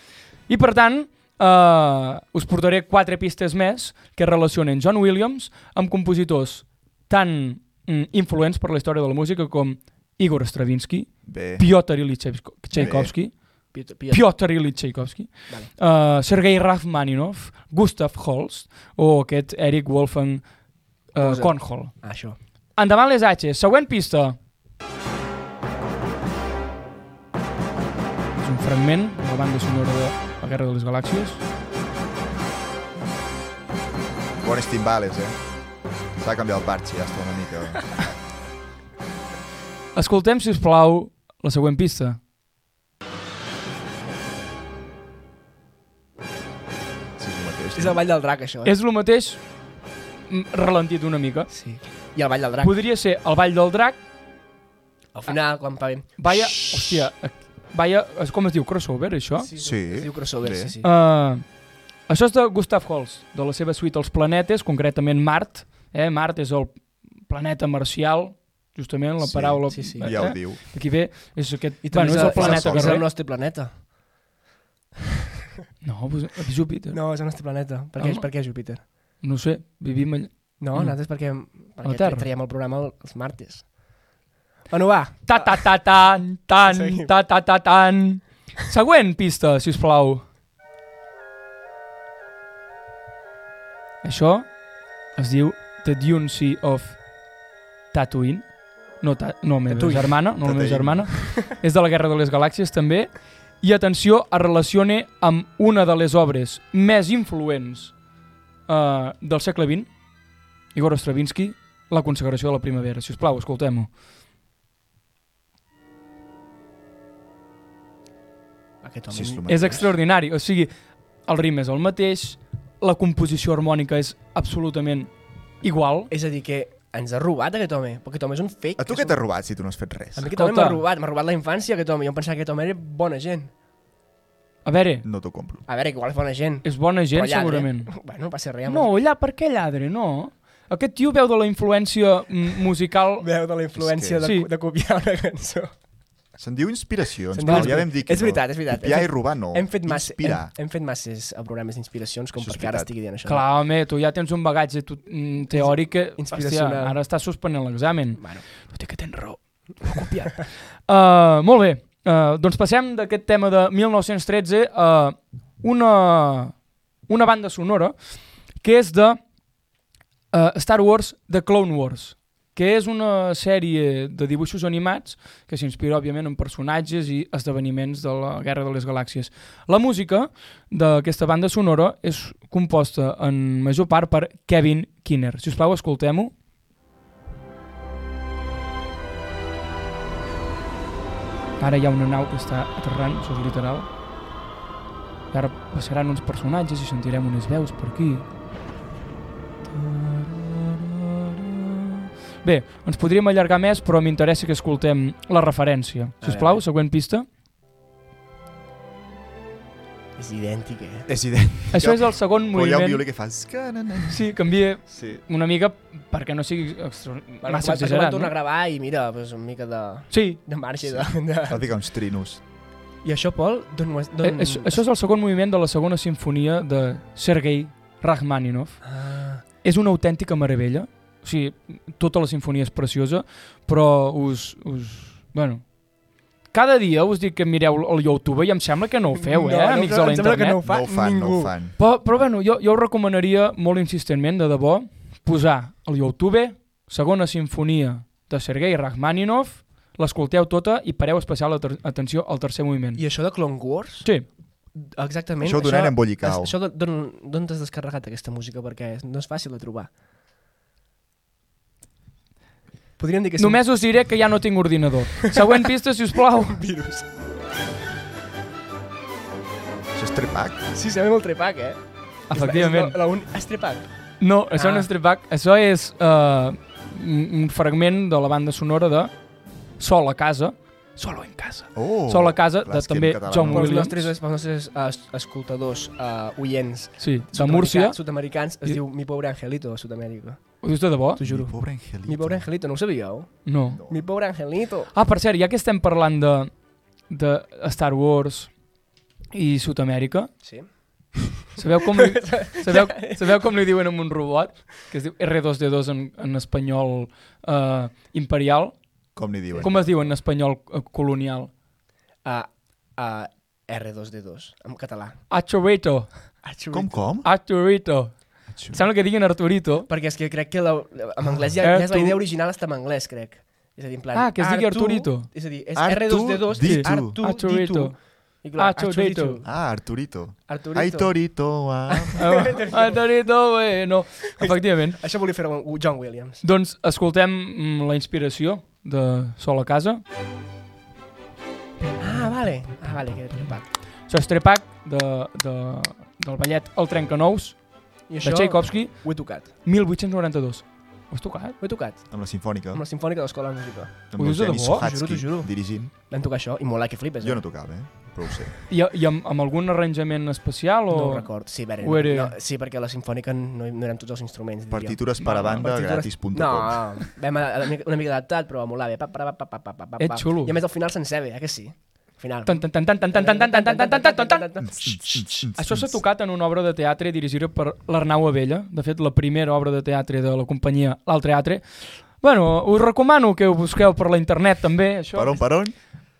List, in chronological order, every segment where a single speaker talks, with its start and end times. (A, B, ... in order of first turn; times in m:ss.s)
0:00.5-0:20.5 A
0:11.2-0:11.6 B
0:12.7-0:13.1 B
0:13.7-0:14.2 C
0:21.1-0:22.1 A
0:21.2-0:22.4 C
0:22.7-0:24.4 A
0:28.3-0:31.4 A
0:34.4-0:35.4 B
0:36.2-0:38.0 B
0:39.9-0:42.2 A
0:47.2-0:48.0 B
0:47.7-0:48.7 C
0:48.6-0:49.4 A
0:50.3-0:51.5 A
0:51.5-0:52.7 C
0:52.6-0:54.0 A
0:55.1-0:57.0 C
0:56.2-0:59.5 A
0:59.4-1:00.9 C
0:59.6-1:00.7 B
1:00.8-1:01.5 A
1:02.1-1:13.1 A
1:09.2-1:10.6 B
1:09.7-1:10.2 C
1:11.8-1:13.8 C
1:12.0-1:13.0 B
1:15.8-1:17.0 A
1:16.9-1:18.8 C
1:18.0-1:18.3 A
1:19.2-1:21.0 A
1:20.6-1:23.7 C
1:21.7-1:22.3 A
1:24.7-1:25.8 C
1:25.3-1:30.2 A
1:26.6-1:27.1 C
1:34.0-1:34.6 A
1:35.1-1:37.1 A
1:37.9-1:48.0 A
1:39.7-1:40.2 C
1:40.4-1:41.1 B
1:48.7-1:50.0 A
1:50.7-1:53.9 A
1:58.8-1:59.8 C
1:59.1-1:59.9 B
1:59.5-2:00.7 A
2:01.2-2:05.1 A
2:05.6-2:06.1 A
2:06.1-2:09.2 C
2:08.8-2:10.3 B
2:10.1-2:13.5 C
2:10.3-2:10.8 A
2:14.6-2:15.0 A
2:15.0-2:15.6 B
2:15.7-2:18.9 C
2:16.6-2:17.9 A
2:18.6-2:23.3 A
2:23.2-2:25.7 C
2:23.8-2:24.2 B
2:24.2-2:24.5 A
2:26.4-2:30.5 B
2:27.3-2:33.4 C
2:27.4-2:27.8 A
2:32.3-2:32.9 B
2:33.2-2:49.2 A
2:35.5-2:37.0 C
2:38.2-2:38.4 C
2:50.3-3:06.3 A
3:11.6-3:13.9 A
3:15.3-3:18.3 A
3:19.6-3:27.3 A
3:26.2-3:26.6 C
3:30.2-3:31.1 C
3:31.1-3:34.3 B
3:31.7-3:33.0 A
3:34.1-3:38.3 A
3:34.9-3:35.2 B
3:37.4-3:41.6 C
3:40.1-3:40.4 A
3:40.8-3:42.4 B
3:43.0-3:44.8 C
3:44.2-3:48.8 A
3:48.8-3:49.4 C
3:49.6-3:55.7 A
3:56.5-4:00.6 A
3:59.1-4:01.5 C
4:00.6-4:01.7 B
4:01.8-4:13.0 A
4:13.0-4:14.1 C
4:14.7-4:19.9 C
4:15.4-4:16.5 B
4:23.0-4:23.8 C
4:23.4-4:26.6 A
4:26.2-4:27.1 C
4:29.9-4:30.7 B
4:30.7-4:33.9 C
4:32.3-4:33.0 A
4:34.2-4:39.1 A
4:34.5-4:34.9 C
4:39.8-4:44.1 A
4:41.8-4:43.9 B
4:43.5-4:50.4 C
4:47.0-4:48.0 A
4:50.6-4:51.2 A
4:51.2-4:54.9 C
4:51.2-4:52.4 B
4:53.4-4:53.8 A
4:53.7-4:54.0 B
4:54.9-4:56.5 A
4:57.1-4:58.5 A
4:59.3-5:00.3 A
5:00.4-5:03.3 C
5:01.6-5:08.8 A
5:09.1-5:09.8 B
5:09.5-5:09.9 C
5:09.6-5:11.5 A
5:12.2-5:15.2 C
5:15.3-5:16.3 A
5:16.4-5:17.0 C
5:16.7-5:17.3 B
5:17.2-5:19.9 A
5:18.5-5:18.8 B
5:19.9-5:29.5 C
5:21.6-5:22.2 A
5:24.1-5:25.3 A
5:25.8-5:27.2 B
5:26.6-5:28.0 A
5:28.6-5:29.4 A
5:29.4-5:32.2 B
5:30.5-5:31.2 C
5:31.9-5:33.0 C
5:32.2-5:35.0 A
5:34.4-5:36.4 C
5:36.4-5:40.0 A
5:42.0-5:43.7 C
5:44.1-5:51.6 A
5:48.1-5:49.5 C
5:51.6-5:52.2 C
5:52.1-5:52.8 B
5:52.7-5:54.1 C
5:54.1-5:55.9 B
5:54.2-5:54.8 A
5:54.7-5:57.4 C
5:57.2-5:58.5 B
5:58.7-6:02.3 A
6:00.9-6:15.2 C
6:04.7-6:07.0 B
6:05.3-6:05.6 A
6:10.0-6:10.6 A
6:12.4-6:14.7 A
6:14.6-6:16.0 B
6:15.5-6:25.5 A
6:25.1-6:25.8 B